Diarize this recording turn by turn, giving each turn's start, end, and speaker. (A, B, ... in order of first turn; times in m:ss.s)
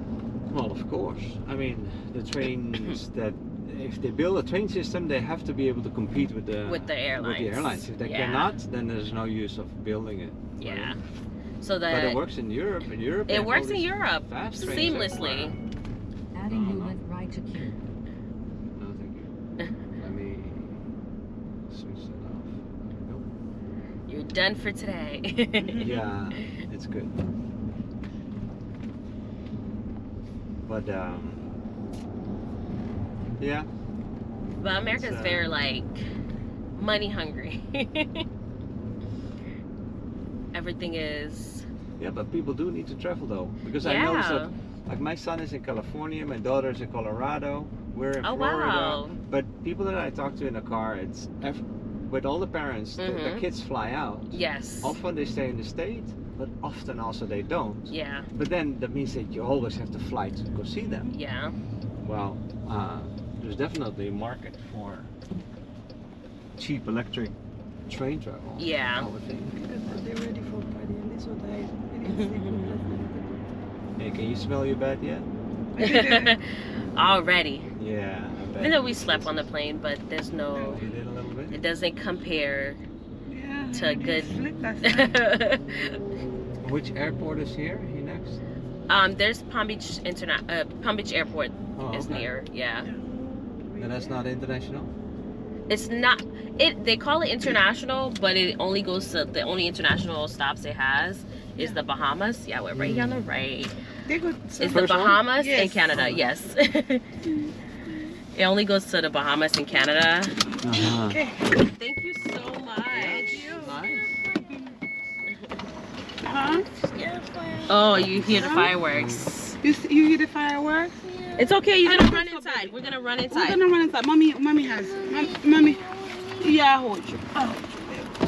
0:00.5-0:10.9 A
0:06.6-0:08.5 B
0:10.6-0:11.0 B
0:11.6-0:12.2 B
0:11.9-0:15.6 A
0:13.3-0:15.5 B
0:16.4-0:17.8 C
0:16.5-0:17.0 A
0:18.8-0:19.3 A
0:20.0-0:20.8 A
0:21.7-0:23.3 A
0:24.1-0:26.6 B
0:25.6-0:26.0 D
0:25.8-0:27.2 A
0:30.6-0:31.6 A
0:33.4-0:33.7 A
0:34.6-0:36.0 B
0:34.9-0:35.5 A
0:36.7-0:38.2 B
0:40.5-0:41.6 B
0:42.0-1:01.1 A
0:43.8-0:44.5 B
0:48.2-0:49.2 B
0:53.0-0:53.4 B
0:54.3-0:55.0 B
0:57.9-0:58.3 B
1:00.8-1:01.2 D
1:01.1-1:01.5 B
1:02.0-1:05.1 A
1:06.6-1:07.3 A
1:07.9-1:09.6 A
1:08.6-1:09.1 B
1:09.5-1:13.4 D
1:12.0-1:12.7 B
1:14.0-1:15.3 A
1:15.7-1:16.4 D
1:15.8-1:17.7 B
1:17.8-1:19.5 A
1:18.6-1:20.9 B
1:20.5-1:20.8 D
1:20.7-1:21.6 A
1:21.5-1:22.8 B
1:23.3-1:25.2 D
1:23.7-1:26.0 B
1:26.6-1:28.4 A
1:28.9-1:32.9 B
1:31.8-1:32.3 A
1:33.6-1:34.3 D
1:33.8-1:34.9 A
1:35.7-1:43.7 B
1:42.7-1:43.3 A
1:44.0-1:46.1 D
1:44.6-1:47.0 B
1:44.7-1:45.2 A
1:45.9-1:46.2 A
1:48.3-1:50.4 B
1:50.6-1:51.2 A
1:50.6-1:51.6 D
1:51.5-1:53.7 B
1:52.9-1:54.2 A
1:53.1-1:53.8 D
1:54.4-1:54.8 D
1:56.2-1:56.7 D
1:56.9-1:57.6 C
1:57.6-1:59.6 B
1:57.9-1:59.3 A
1:58.3-1:58.7 D
1:59.6-2:08.1 D
2:01.4-2:03.6 B
2:05.5-2:06.3 C